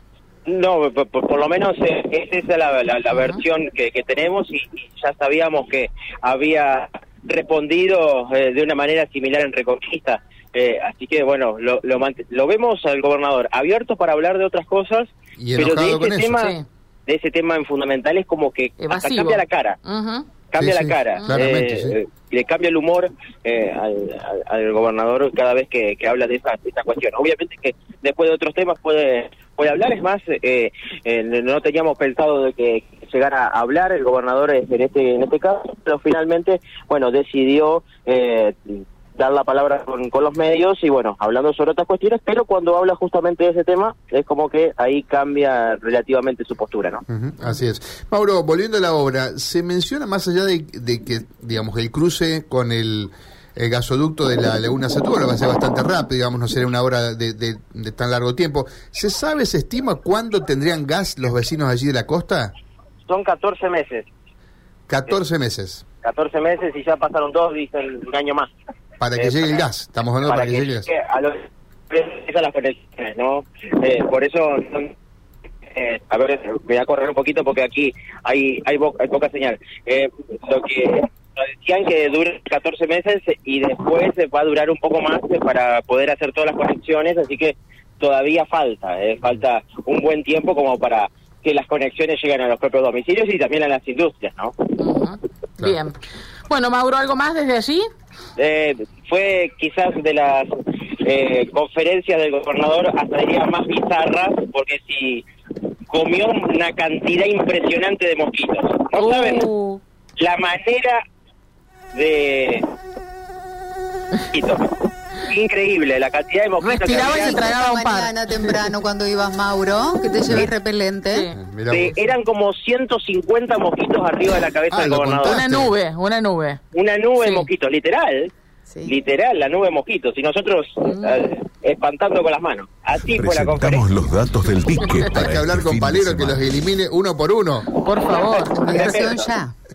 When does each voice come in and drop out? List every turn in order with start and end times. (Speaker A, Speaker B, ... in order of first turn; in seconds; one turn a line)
Speaker A: 0.5-16.5
Speaker B: 3.1-3.4
Speaker C: 15.4-16.4
Speaker B: 16.4-16.6
Speaker A: 17.1-19.8
Speaker B: 18.8-20.3
Speaker A: 20.5-47.0
Speaker C: 20.6-22.0
Speaker C: 47.1-62.5
Speaker A: 63.1-64.1
Speaker C: 64.9-65.8
Speaker A: 66.0-68.5
Speaker C: 69.0-70.9
Speaker A: 69.2-69.7
Speaker A: 70.2-74.9
Speaker A: 75.7-94.5
Speaker B: 94.8-96.0
Speaker B: 96.5-97.9
Speaker A: 98.4-105.3
Speaker A: 105.9-109.5
Speaker B: 109.0-109.8
Speaker A: 110.2-111.0
Speaker A: 111.9-112.7
Speaker A: 114.3-114.7
Speaker A: 115.3-117.5
Speaker B: 116.6-118.7
Speaker D: 116.9-121.2
Speaker B: 121.1-122.0
Speaker C: 121.3-121.9
Speaker A: 121.7-125.4
Speaker C: 124.7-125.7
Speaker B: 125.3-126.6
Speaker A: 126.7-128.3
Speaker B: 127.2-127.5
Speaker A: 128.8-134.1
Speaker B: 130.8-131.2
Speaker E: 133.1-136.3
Speaker B: 134.8-135.1
Speaker C: 135.1-137.7
Speaker B: 137.8-138.8
Speaker D: 138.5-139.5
Speaker A: 138.6-139.3